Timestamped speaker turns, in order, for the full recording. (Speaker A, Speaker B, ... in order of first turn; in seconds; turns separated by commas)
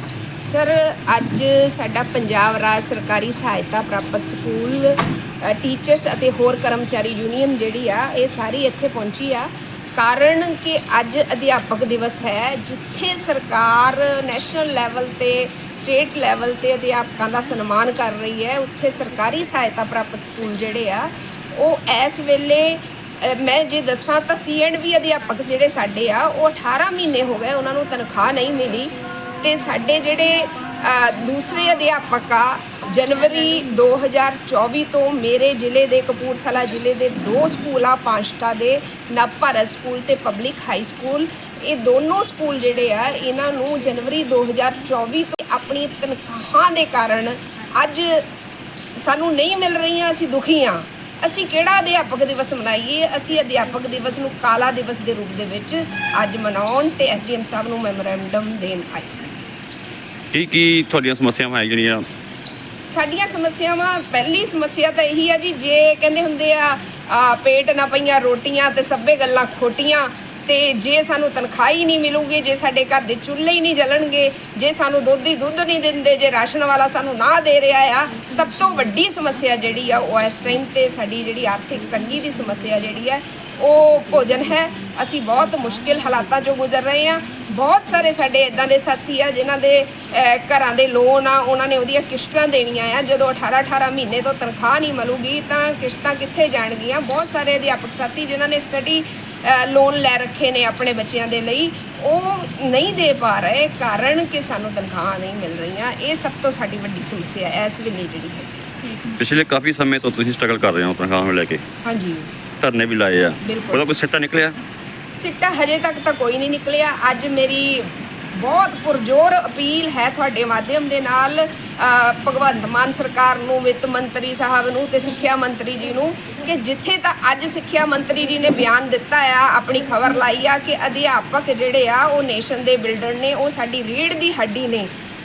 Speaker A: 0.4-48.3, Speaker A: 49.0-59.3, Speaker B: 60.3-62.0, Speaker A: 62.9-109.0, Speaker B: 109.2-111.6, Speaker A: 111.8-112.3, Speaker B: 112.6-114.6, Speaker A: 113.4-113.8, Speaker A: 115.1-134.9